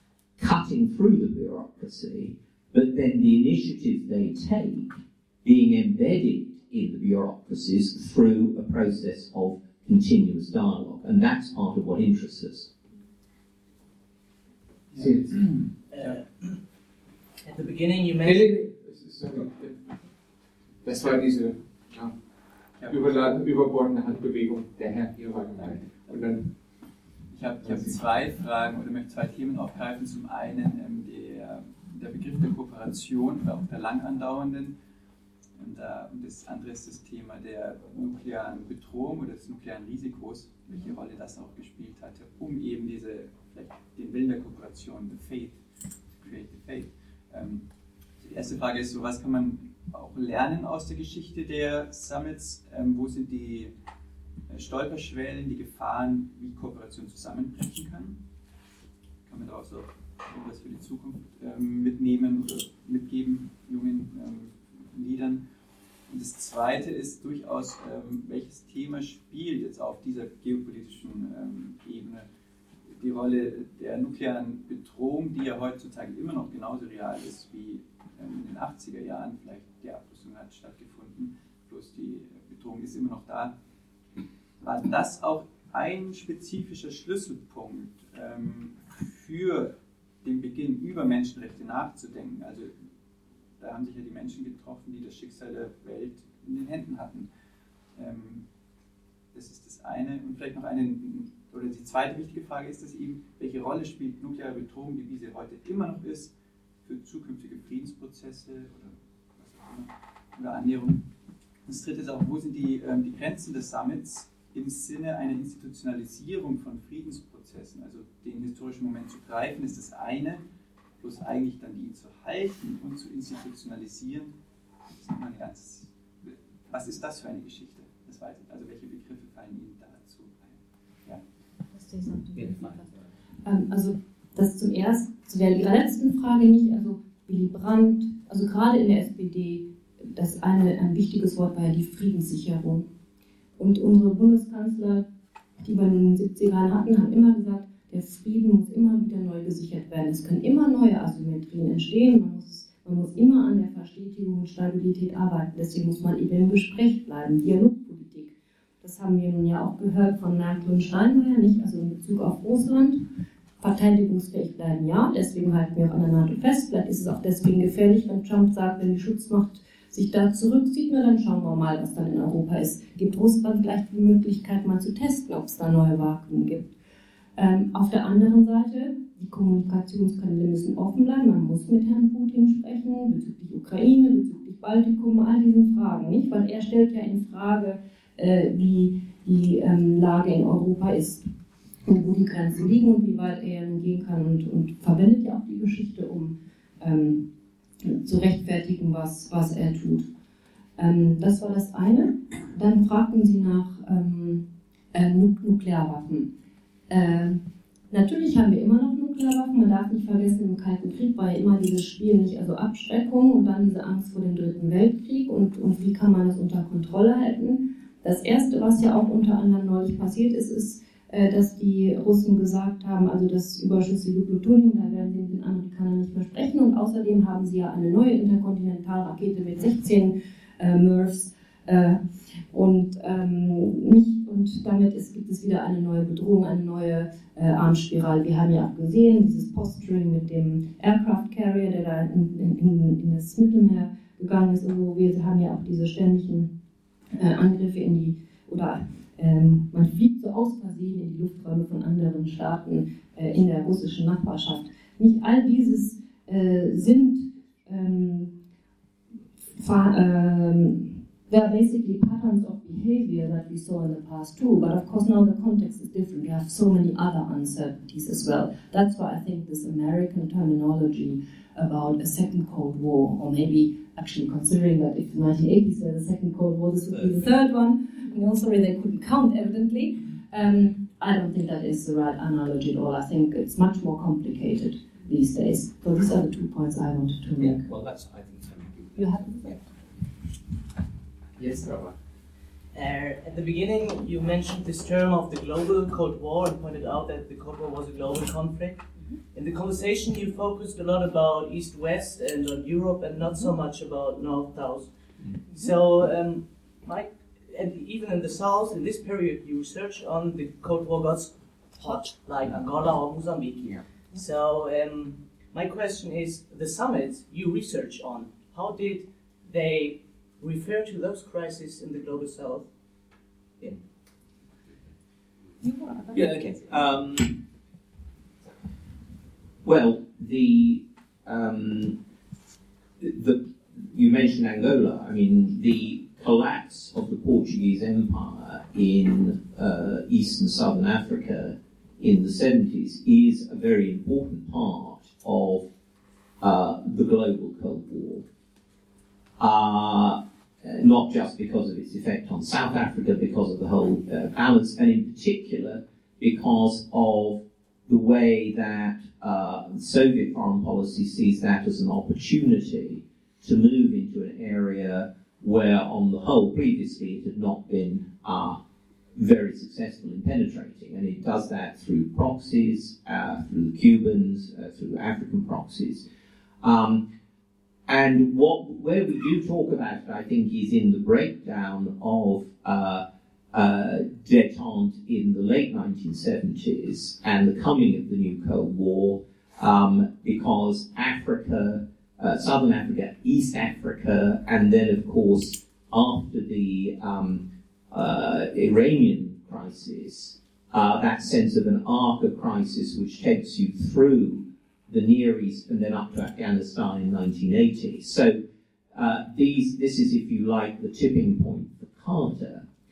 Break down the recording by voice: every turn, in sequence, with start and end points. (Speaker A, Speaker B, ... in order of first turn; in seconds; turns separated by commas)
Speaker A: 0.4-12.7, Speaker B: 14.9-15.5, Speaker C: 15.9-16.6, Speaker C: 17.4-18.5, Speaker B: 18.2-19.8, Speaker B: 20.8-22.1, Speaker D: 22.8-23.1, Speaker B: 22.9-26.5, Speaker D: 27.3-34.7, Speaker B: 27.6-28.0, Speaker D: 35.6-45.6, Speaker D: 46.2-47.6, Speaker D: 48.2-53.7, Speaker D: 54.5-58.2, Speaker D: 59.2-65.4, Speaker D: 66.1-72.3, Speaker D: 73.0-83.5, Speaker D: 84.6-92.7, Speaker D: 93.6-97.3, Speaker D: 97.9-98.4, Speaker D: 99.3-106.3, Speaker D: 106.8-111.0, Speaker D: 111.7-120.4, Speaker D: 121.0-124.3, Speaker D: 125.0-131.2, Speaker E: 131.8-132.7, Speaker E: 133.4-142.9, Speaker E: 143.6-145.1, Speaker E: 145.6-163.0, Speaker E: 163.6-176.7, Speaker E: 177.4-191.3, Speaker E: 191.8-197.2, Speaker E: 197.8-200.1, Speaker E: 200.8-206.3, Speaker E: 206.9-246.5, Speaker E: 247.1-258.3, Speaker E: 259.5-287.7, Speaker A: 287.4-289.6, Speaker E: 289.0-289.4, Speaker B: 291.4-291.9, Speaker C: 292.7-304.9, Speaker C: 305.5-322.7, Speaker A: 326.1-327.4, Speaker A: 329.6-332.0, Speaker A: 333.0-345.7, Speaker A: 346.4-348.2, Speaker A: 349.4-368.6, Speaker A: 369.1-376.1, Speaker A: 376.6-377.0, Speaker A: 377.9-408.4, Speaker A: 408.9-412.6